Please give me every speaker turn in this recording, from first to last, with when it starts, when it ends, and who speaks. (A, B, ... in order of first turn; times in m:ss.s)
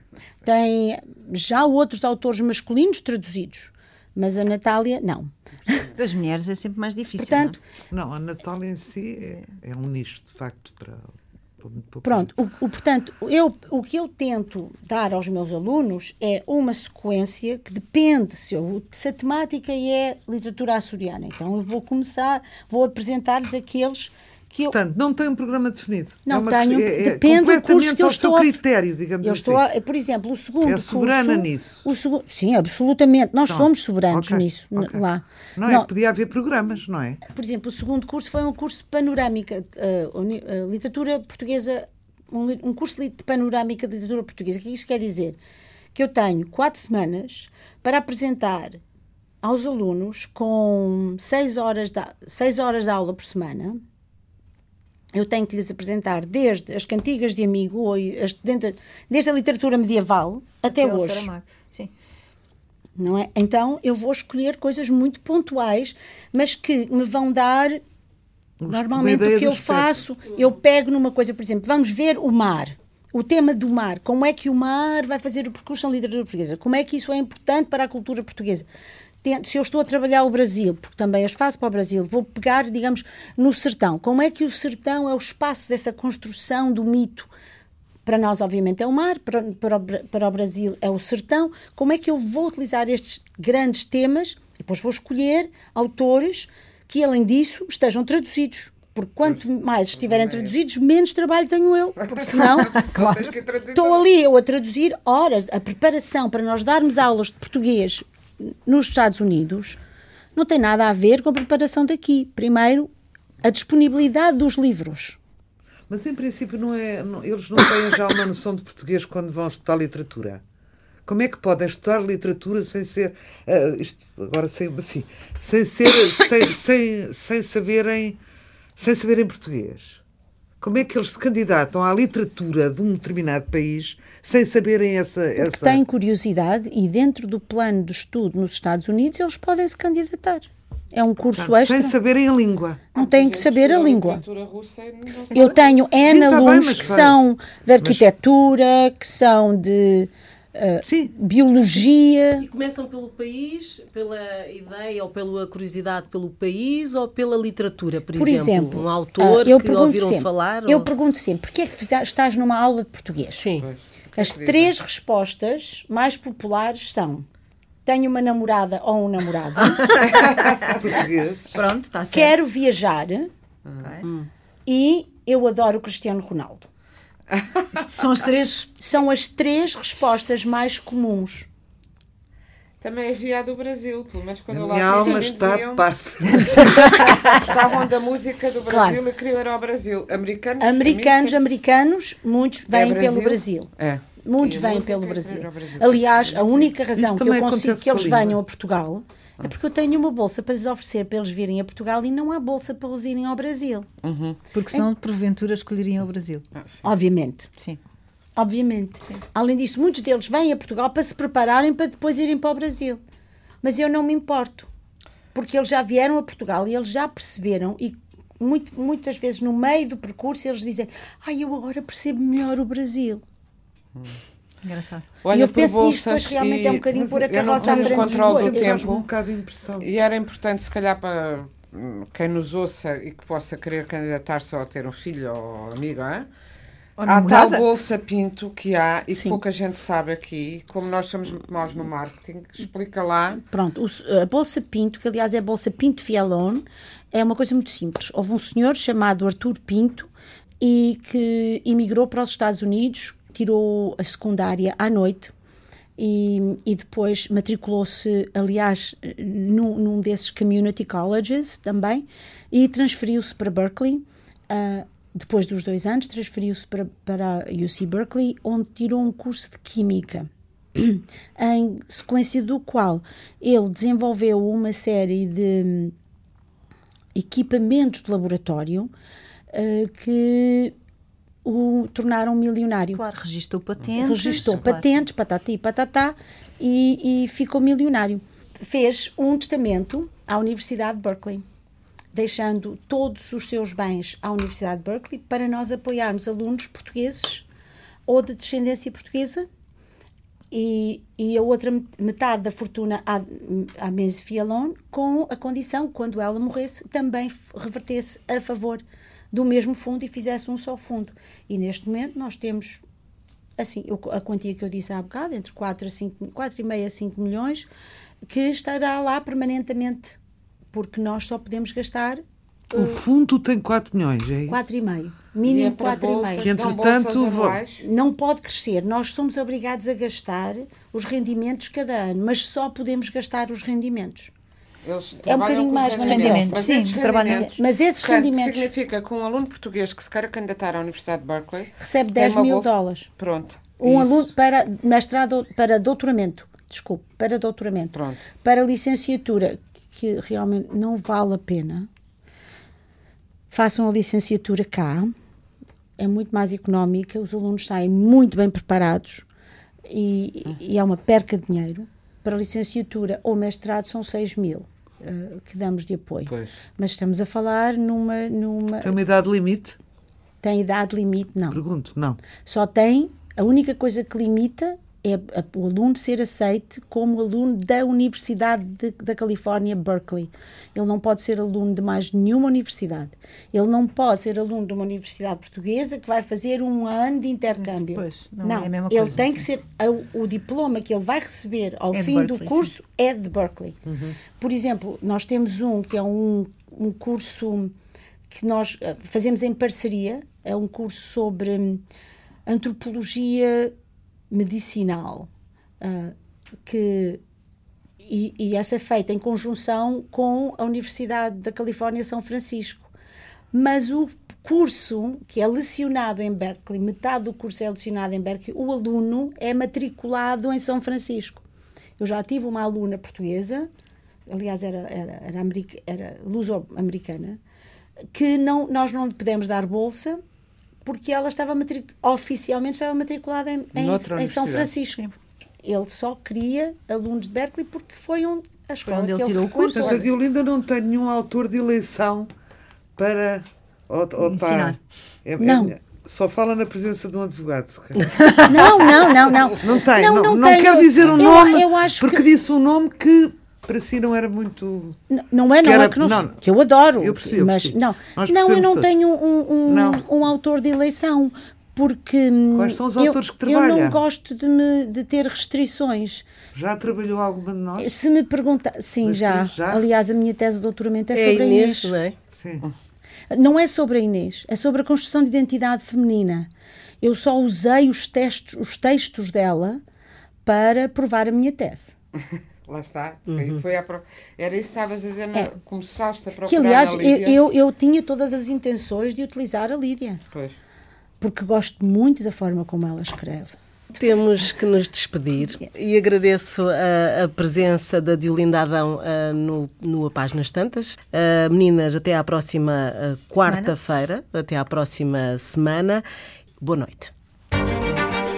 0:00.4-0:05.9 A
0:06.0-0:07.6 B
0:07.2-0:07.6 A
0:07.9-0:12.3 C
0:12.0-0:24.8 A
0:24.7-0:29.6 C
0:26.3-0:28.6 A
0:29.2-0:35.9 A
0:30.7-0:31.8 C
0:33.5-0:35.0 C
0:35.6-0:37.2 C
0:37.3-0:45.4 A
0:46.0-0:48.8 A
0:49.4-0:53.8 A
0:55.1-1:01.3 A
1:00.7-1:01.9 B
1:03.0-1:07.8 A
1:08.6-1:10.0 C
1:08.7-1:18.7 A
1:19.2-1:27.3 A
1:28.0-1:43.0 A
1:40.0-1:40.5 D
1:42.1-1:44.0 D
1:42.8-1:43.3 B
1:43.7-1:49.8 A
1:50.4-1:52.9 A
1:53.4-1:55.2 A
1:55.9-2:00.4 C
2:01.1-2:08.2 C
2:08.8-2:10.0 C
2:10.6-2:15.8 C
2:15.4-2:22.0 A
2:21.4-2:22.8 C
2:22.9-2:24.2 A
2:23.0-2:25.9 D
2:25.3-2:32.5 A
2:26.0-2:27.2 C
2:30.8-2:31.1 C
2:32.4-2:40.9 E
2:38.1-2:43.5 A
2:43.3-2:43.7 E
2:43.6-2:44.7 D
2:44.2-2:47.3 A
2:47.8-2:49.9 A
2:49.8-2:50.7 B
2:50.2-2:51.6 C
2:51.5-2:52.4 B
2:52.1-2:53.3 A
2:53.8-2:54.1 B
2:54.7-2:56.7 A
2:57.3-2:57.6 D
2:57.7-2:58.7 B
2:58.8-3:01.5 A
3:02.8-3:05.9 D
3:04.5-3:07.1 C
3:04.9-3:05.2 A
3:06.3-3:07.6 B
3:06.6-3:11.4 D
3:08.7-3:09.0 A
3:10.6-3:13.7 A
3:12.7-3:16.7 D
3:14.2-3:23.9 A
3:17.0-3:18.4 C
3:24.0-3:24.4 D
3:24.5-3:26.5 B
3:26.6-3:26.8 D
3:26.8-3:27.5 A
3:28.4-3:33.0 A
3:33.6-3:34.7 A
3:35.3-3:43.2 A
3:44.6-3:45.1 B
3:45.2-3:49.0 D
3:45.3-3:49.0 A
3:46.9-3:49.9 C
3:49.8-3:56.3 D
3:57.0-3:57.7 B
3:57.0-4:03.4 D
3:59.1-3:59.4 A
4:03.4-4:10.1 A
4:10.6-4:15.3 A
4:16.0-4:35.9 A
4:37.2-4:38.9 A
4:39.5-4:40.7 A
4:41.4-4:43.0 A
4:42.9-4:44.9 B
4:44.0-4:51.4 A
4:52.1-4:57.4 A
4:58.1-4:59.5 A
5:00.5-5:12.8 A
5:13.6-5:17.7 A
5:18.3-5:20.2 A
5:20.7-5:23.0 A
5:22.7-5:24.7 C
5:24.5-5:26.6 A
5:25.4-5:27.8 D
5:26.4-5:27.6 C
5:27.8-5:34.3 A
5:34.8-5:44.3 D
5:35.2-5:38.7 A
5:36.0-5:37.5 B
5:41.8-5:43.1 A
5:43.8-5:51.9 A
5:47.9-5:48.2 D
5:53.5-5:55.1 A
5:56.0-5:59.3 A
5:59.9-6:09.0 A
6:06.3-6:06.6 D
6:08.8-6:09.8 C
6:10.4-6:11.6 A
6:11.5-6:12.2 C
6:12.4-6:33.8 A
6:27.9-6:29.4 B
6:31.9-6:32.7 B
6:33.9-6:34.2 C
6:34.4-6:37.7 A
6:38.3-6:41.8 A
6:42.5-6:43.7 A
6:44.3-6:45.3 A
6:45.8-6:47.2 A
6:48.0-6:52.9 A
6:53.5-7:01.4 A
7:02.0-7:03.7 A
7:04.3-7:07.4 A
7:08.1-7:10.2 A
7:10.8-7:20.1 A
7:13.7-7:14.7 D
7:18.8-7:20.0 B
7:19.7-7:22.3 C
7:23.0-7:28.7 C
7:24.2-7:24.8 B
7:25.4-7:25.8 A
7:28.0-7:29.0 B
7:28.5-7:32.2 A
7:29.5-7:35.0 C
7:35.1-7:46.2 A
7:35.6-7:36.4 C
7:37.0-7:38.9 C
7:39.7-7:40.1 C
7:42.5-7:44.0 C
7:46.5-7:47.9 C
7:47.8-7:52.0 A
7:49.0-7:49.9 C
7:51.1-7:52.2 E
7:52.3-7:52.6 C
7:53.3-7:56.5 A
7:57.0-7:59.8 A
8:00.4-8:02.0 A
8:02.7-8:07.4 D
8:03.3-8:03.6 E
8:06.5-8:10.2 A
8:10.3-8:10.6 D
8:11.2-8:13.6 A
8:13.9-8:26.0 E
8:23.3-8:23.8 B
8:26.6-8:27.1 E
8:27.9-8:28.2 D